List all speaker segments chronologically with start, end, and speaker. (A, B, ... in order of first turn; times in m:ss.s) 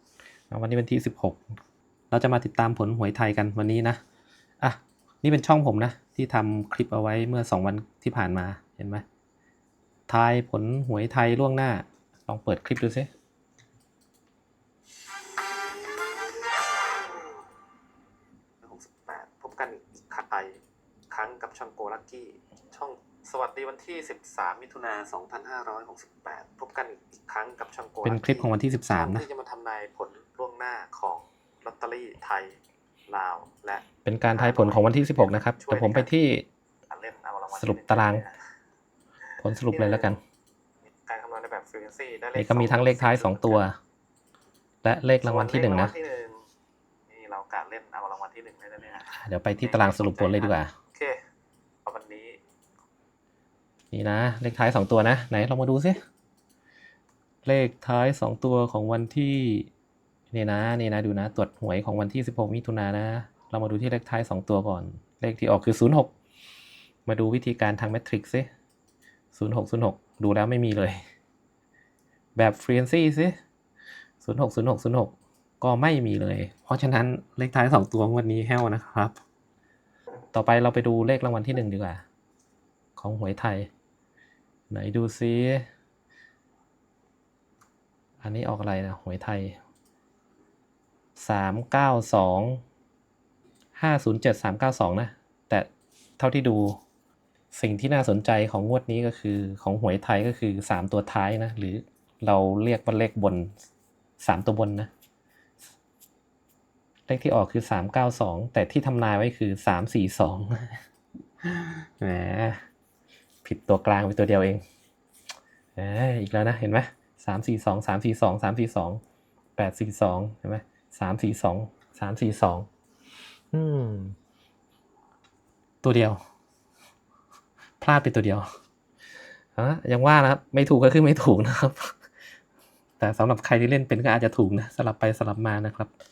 0:00.5-0:01.5 A
0:02.1-0:04.0 A
0:04.6-0:09.0 A
0:10.1-0:13.1 A
0:18.6-0:36.1 B
0:28.0-0:29.3 A
0:34.0-0:36.5 A
0:36.9-0:38.4 B
0:37.5-0:38.2 A
0:39.4-0:40.2 A
0:39.7-0:40.2 B
0:40.9-0:43.6 B
0:42.4-0:43.8 A
0:44.8-0:45.9 A
0:45.2-0:46.4 B
0:47.1-0:51.2 B
0:49.1-0:50.7 A
0:51.8-0:52.4 B
0:53.9-0:56.0 A
0:57.4-0:59.7 A
1:00.3-1:06.1 A
1:07.1-1:08.5 A
1:09.3-1:11.0 A
1:12.4-1:13.4 A
1:14.2-1:19.2 A
1:20.3-1:22.0 A
1:23.0-1:23.7 A
1:24.7-1:25.6 A
1:28.2-1:29.6 A
1:31.2-1:32.6 A
1:33.8-1:35.7 A
1:36.2-1:36.8 A
1:37.5-1:43.5 A
1:44.2-1:44.9 A
1:47.1-1:50.8 A
1:51.4-1:52.6 A
1:53.4-1:54.6 A
1:55.8-1:59.0 A
1:59.6-2:02.7 A
2:03.5-2:04.2 A
2:05.8-2:06.2 A
2:07.8-2:08.5 A
2:09.6-2:11.9 A
2:13.0-2:15.9 A